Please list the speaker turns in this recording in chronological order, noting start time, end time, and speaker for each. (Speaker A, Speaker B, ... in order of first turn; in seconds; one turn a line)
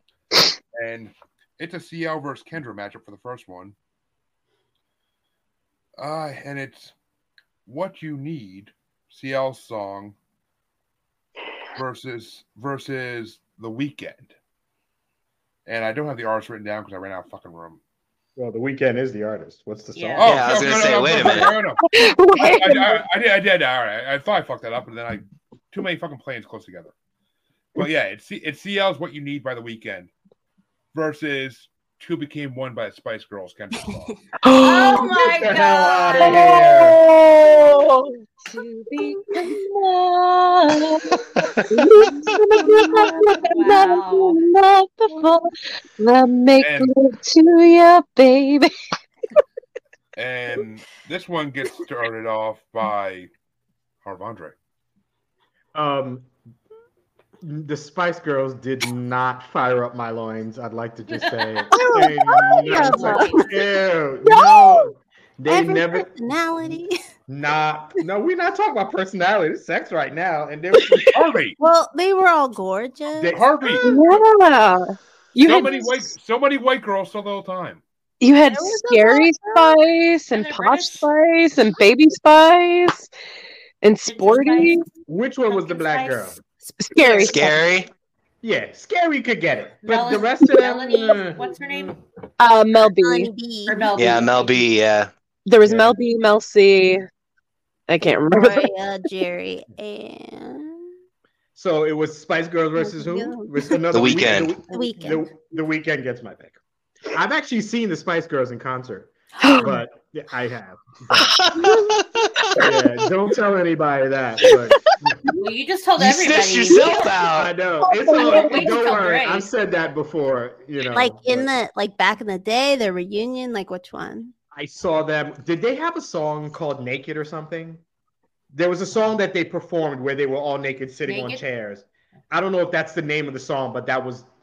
Speaker A: 0.7-3.8
Speaker A: 6.0-6.9
Speaker A: 7.7-10.2
Speaker A: 11.8-14.3
Speaker A: 15.7-17.8
Speaker B: 18.4-20.6
Speaker C: 19.9-20.3
Speaker A: 20.2-21.8
Speaker D: 20.2-21.6
Speaker E: 21.8-23.0
Speaker A: 22.4-26.9
Speaker A: 27.8-30.1
Speaker A: 30.9-34.2
Speaker E: 34.4-35.4
Speaker C: 34.6-36.6
Speaker B: 35.3-37.0
Speaker E: 36.2-41.1
Speaker E: 41.7-48.7
Speaker C: 42.7-44.4
Speaker A: 46.6-46.9
Speaker A: 50.2-53.3
Speaker A: 54.0-54.5
Speaker B: 55.7-56.3
Speaker B: 57.4-66.1
Speaker C: 61.1-61.6
Speaker E: 61.7-63.2
Speaker F: 62.4-63.6
Speaker C: 63.0-63.2
Speaker E: 64.3-64.7
Speaker F: 65.5-67.0
Speaker B: 67.3-71.1
Speaker A: 71.1-71.6
Speaker F: 71.6-74.0
Speaker B: 73.2-73.4
Speaker A: 73.3-73.9
Speaker E: 73.8-76.0
Speaker A: 75.4-77.8
Speaker E: 78.2-83.1
Speaker C: 78.5-79.7
Speaker C: 80.3-81.1
Speaker E: 83.8-84.8
Speaker C: 84.1-84.8
Speaker B: 85.1-86.4
Speaker C: 85.5-86.3
Speaker E: 86.8-87.6
Speaker C: 87.0-87.4
Speaker D: 87.2-87.9
Speaker B: 88.4-92.0
Speaker C: 89.8-92.0
Speaker E: 92.4-93.3
Speaker F: 92.8-93.9
Speaker C: 93.7-94.7
Speaker D: 94.0-95.1
Speaker E: 95.5-97.0
Speaker B: 95.6-96.0
Speaker E: 97.9-98.7
Speaker F: 98.0-100.9
Speaker B: 101.5-106.6
Speaker F: 102.8-103.8
Speaker D: 103.9-104.6
Speaker F: 104.7-105.3
Speaker B: 107.1-111.4
Speaker E: 109.4-109.8
Speaker D: 111.3-112.0
Speaker B: 112.6-115.2
Speaker C: 115.4-117.1
Speaker D: 116.0-117.5
Speaker B: 117.3-121.5
Speaker E: 117.8-118.8
Speaker C: 118.2-119.5
Speaker F: 120.9-124.3
Speaker B: 124.5-127.8
Speaker B: 128.5-134.3
Speaker C: 131.1-131.4